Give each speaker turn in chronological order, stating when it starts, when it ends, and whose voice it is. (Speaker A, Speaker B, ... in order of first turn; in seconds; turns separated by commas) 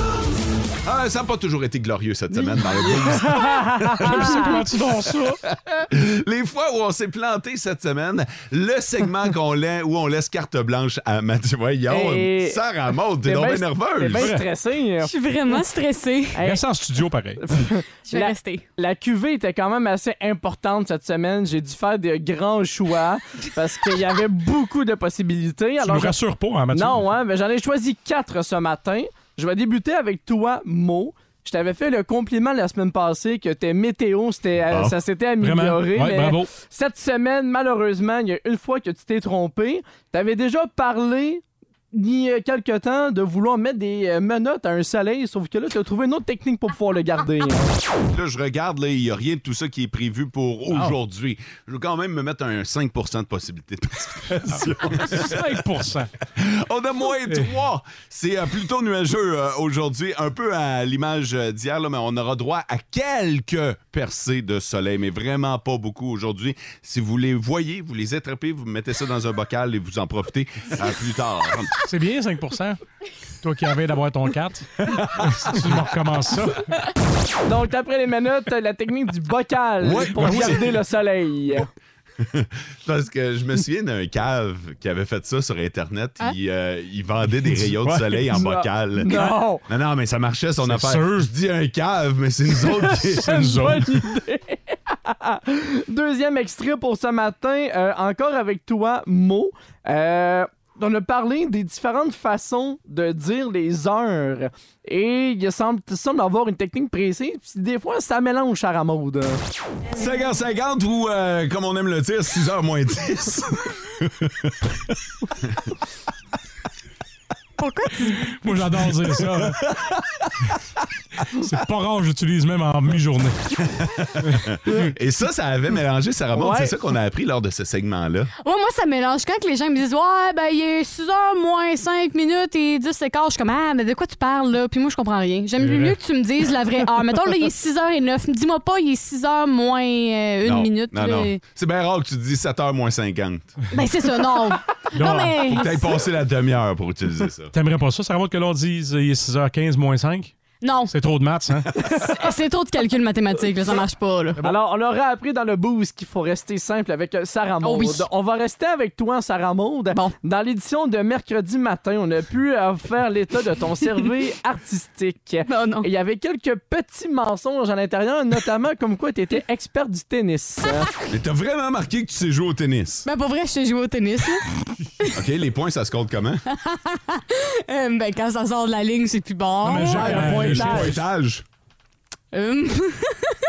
Speaker A: 0.8-4.5, Speaker B: 3.5-4.2, Speaker C: 3.9-5.4, Speaker A: 5.3-14.3, Speaker B: 11.9-12.6, Speaker B: 13.2-15.1, Speaker C: 14.1-14.4, Speaker D: 15.0-16.4, Speaker B: 16.4-16.6, Speaker C: 16.4-17.6, Speaker B: 17.4-26.2, Speaker D: 18.1-18.6, Speaker C: 25.8-27.0, Speaker B: 26.7-47.7, Speaker A: 34.7-34.9, Speaker C: 35.4-36.5, Speaker A: 48.1-55.6, Speaker C: 54.4-56.1, Speaker A: 56.3-71.8, Speaker C: 71.8-72.8, Speaker C: 73.4-76.6, Speaker A: 74.9-75.6, Speaker B: 77.5-81.7, Speaker A: 79.8-80.7, Speaker C: 80.2-80.6, Speaker A: 82.2-93.4, Speaker C: 87.8-88.4, Speaker B: 88.3-89.6, Speaker C: 89.0-89.4, Speaker C: 90.6-91.3, Speaker C: 92.7-94.1, Speaker B: 93.2-109.4, Speaker A: 109.9-114.7, Speaker A: 115.4-115.7, Speaker D: 117.6-118.2, Speaker C: 118.3-119.6, Speaker A: 119.0-120.3, Speaker C: 121.4-123.4, Speaker A: 123.7-128.3, Speaker B: 126.3-126.7, Speaker D: 128.4-141.4, Speaker C: 135.6-135.9, Speaker A: 140.4-143.5, Speaker D: 143.7-145.8, Speaker C: 144.9-145.4, Speaker A: 145.4-147.5, Speaker C: 147.5-150.3, Speaker D: 150.6-150.9, Speaker C: 150.9-151.7, Speaker D: 152.0-154.4, Speaker B: 154.4-170.9, Speaker D: 157.6-158.0, Speaker D: 165.5-165.9, Speaker A: 171.1-173.1, Speaker D: 173.1-174.5, Speaker A: 175.1-176.4, Speaker D: 176.5-180.7, Speaker C: 179.6-181.0, Speaker B: 179.9-180.9, Speaker A: 180.0-181.4, Speaker D: 182.3-183.4